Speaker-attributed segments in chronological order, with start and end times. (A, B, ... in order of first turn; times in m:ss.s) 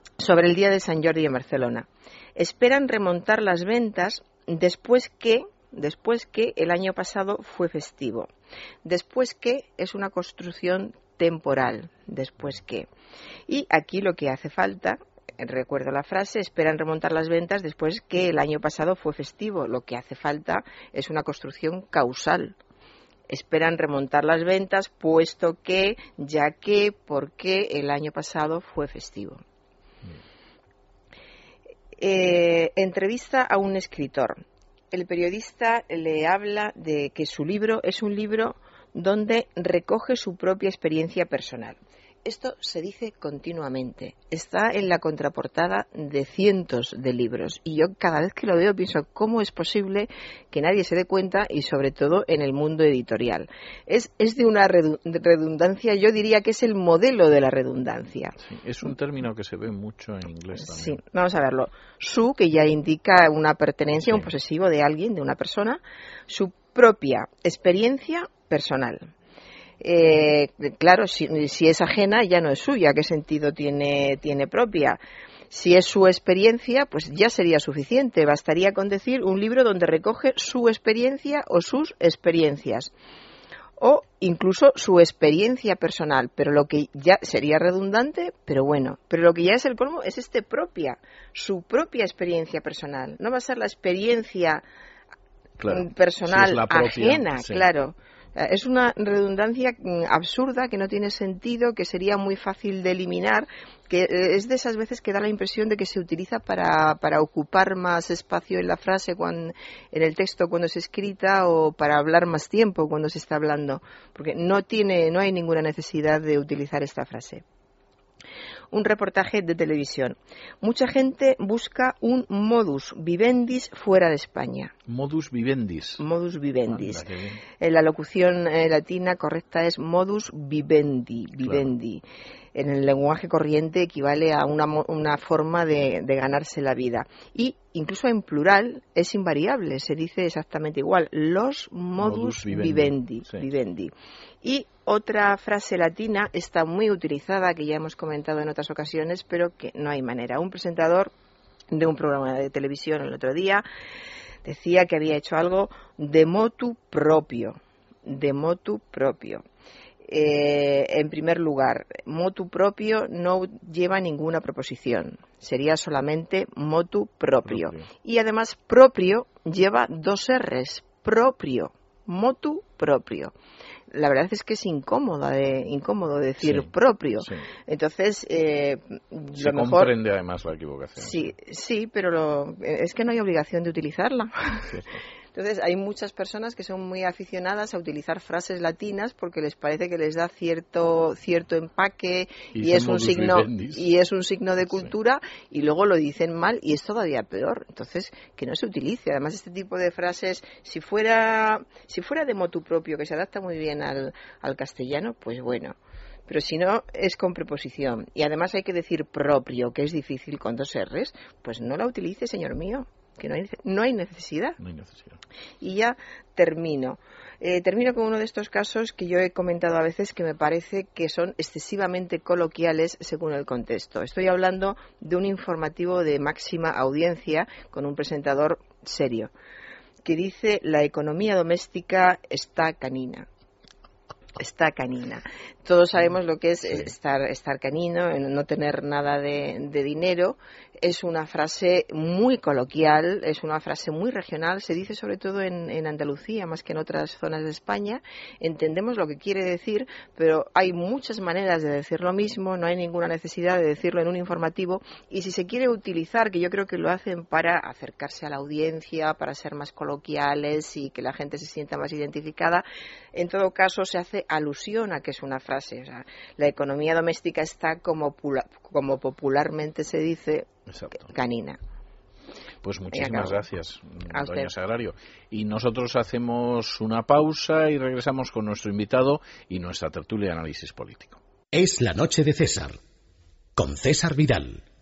0:00.2-0:08.3 A
0:08.8-0:12.9 A
0:13.5-0:22.6 A
0:23.3-0:29.4 A
0:32.0-0:34.4 A
0:34.9-0:58.4 A
0:58.4-1:01.0 B
1:00.6-1:09.1 A
1:09.8-1:15.0 A
1:15.5-1:22.9 A
1:23.8-1:34.6 A
1:35.6-1:37.6 B
1:35.7-1:57.4 A
1:58.7-2:04.7 A
2:04.9-2:06.0 B
2:06.0-2:07.1 A
2:06.7-2:07.4 B
2:07.6-2:12.0 A
2:11.4-2:11.7 B
2:12.6-2:31.1 A
2:22.0-2:23.5 B
2:31.7-2:33.6 A
2:34.4-2:39.4 A
2:40.0-2:53.3 A
2:47.4-2:47.8 B
2:53.9-2:59.9 A
2:56.4-2:57.5 B
2:59.3-3:01.3 B
3:01.0-3:04.7 A
3:04.7-3:05.0 B
3:05.3-3:25.8 A
3:12.5-3:13.9 B
3:26.3-3:34.6 A
3:34.6-3:35.2 B
3:35.6-3:49.3 A
3:50.0-3:53.3 A
3:54.4-4:31.6 A
4:30.7-4:31.0 B
4:32.6-4:41.2 B
4:32.9-4:33.4 A
4:34.1-4:34.5 A
4:41.5-4:42.8 C
4:43.6-4:44.6 C